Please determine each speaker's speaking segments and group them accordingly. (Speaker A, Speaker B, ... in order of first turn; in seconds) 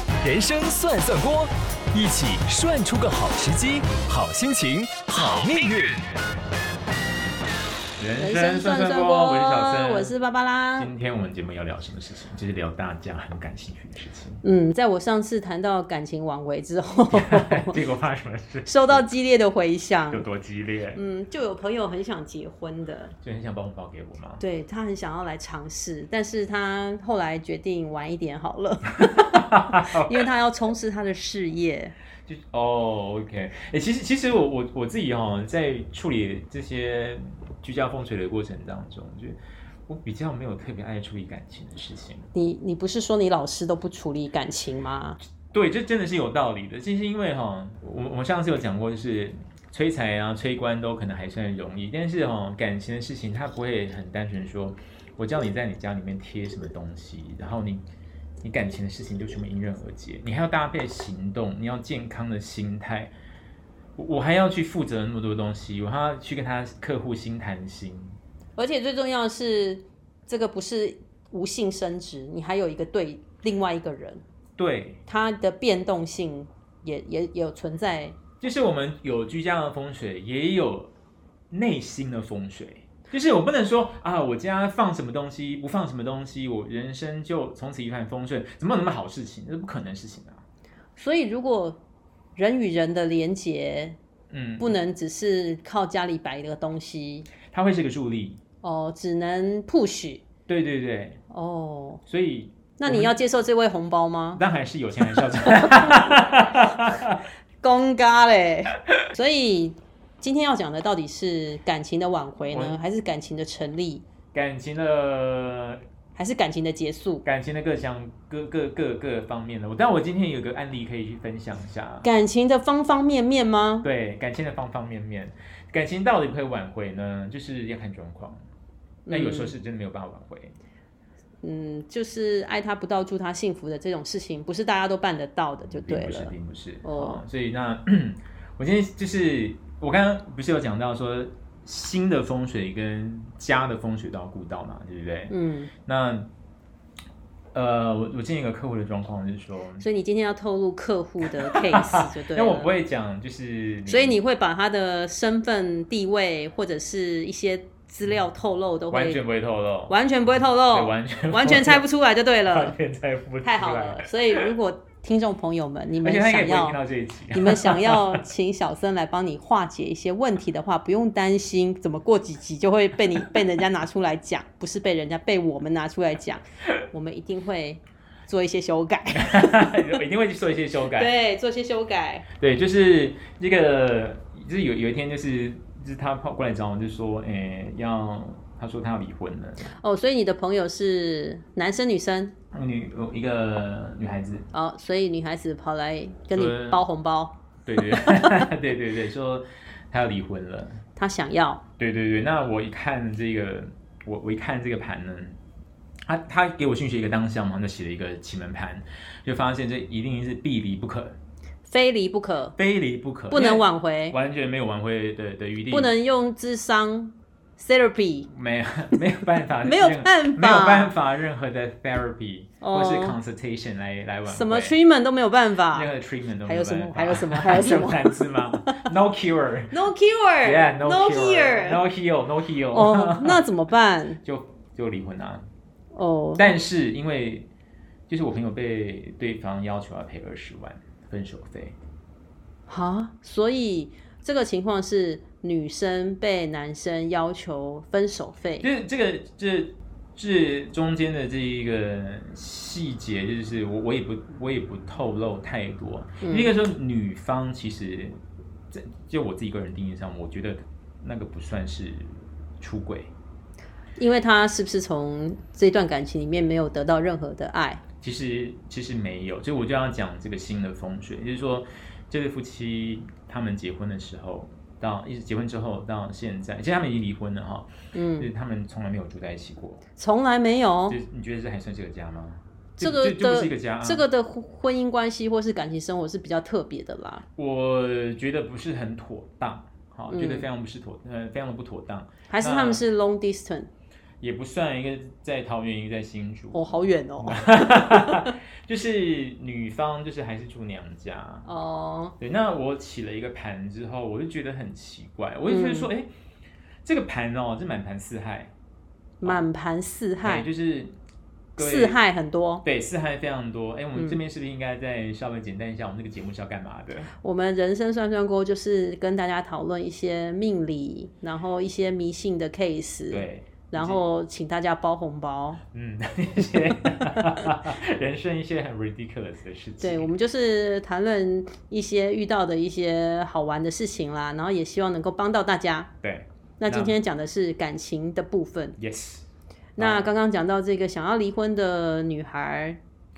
Speaker A: 0.2-6.0
Speaker B: 8.0-10.1, 10.8-14.4, 17.1-19.1, 20.1-21.0, 23.2-24.4, 29.2-30.2, 32.3-42.3, 45.5-57.8, 58.4-63.1, 64.0-68.2, 74.6-75.0, 78.4-80.9, 81.5-90.4, 94.3-94.7, 97.5-98.4, 100.5-101.2, 102.1-103.1, 104.4-107.2, 112.5-112.8, 114.3-115.8, 117.2-122.1, 123.8-128.4, 129.1-130.6, 135.7-145.3, 145.8-146.3, 147.5-149.8, 151.2-154.2, 158.9-159.9, 160.7-161.8, 162.5-164.5, 166.0-168.2, 179.1-181.1, 182.4-189.7, 192.5-194.5, 196.3-196.8, 197.7-200.8, 201.8-205.4, 206.0-211.2, 212.6-215.9, 218.3-224.8, 225.7-229.8, 230.4-233.4, 234.2-235.5, 236.4-237.5, 238.1-241.8, 248.6-258.2, 258.7-263.1, 268.0-279.8, 280.9-284.1, 287.4-292.8, 294.2-301.5, 302.2-306.1, 306.9-308.5, 310.2-311.0, 311.6-312.0, 312.6-317.1, 323.1-324.0, 325.7-330.1, 336.0-336.9, 338.8-339.2, 339.8-340.1
Speaker C: 8.2-10.9, 14.4-17.8, 18.7-20.2, 20.9-23.1, 24.4-31.9, 42.3-45.2, 68.6-74.2, 75.1-78.2, 91.0-91.8, 92.4-94.0, 94.6-97.3, 98.6-100.2, 101.3-102.0, 102.8-104.4, 107.6-114.0, 116.2-117.2, 122.0-123.9, 129.1-129.5, 131.4-136.3, 136.8-137.2, 145.3-145.7, 149.8-152.7, 153.9-159.2, 159.9-162.8, 163.4-166.8, 167.3-179.9, 180.9-182.3, 189.8-192.4, 194.5-198.5, 201.0-201.6, 211.7-212.6, 213.3-214.2, 215.7-218.3, 219.6-220.9, 222.6-223.2, 224.3-225.9, 226.5-228.8, 229.7-231.8, 232.7-234.2, 235.9-236.5, 242.7-248.7, 256.2-256.5, 264.0-267.8, 277.9-278.3, 280.0-281.0, 282.8-287.3, 290.1-290.5, 292.3-293.7, 296.5-298.3, 301.5-302.2, 305.5-305.9, 309.2-310.5, 311.6-312.6, 317.2-325.6, 329.8-335.9, 336.6-338.8, 339.8-342.8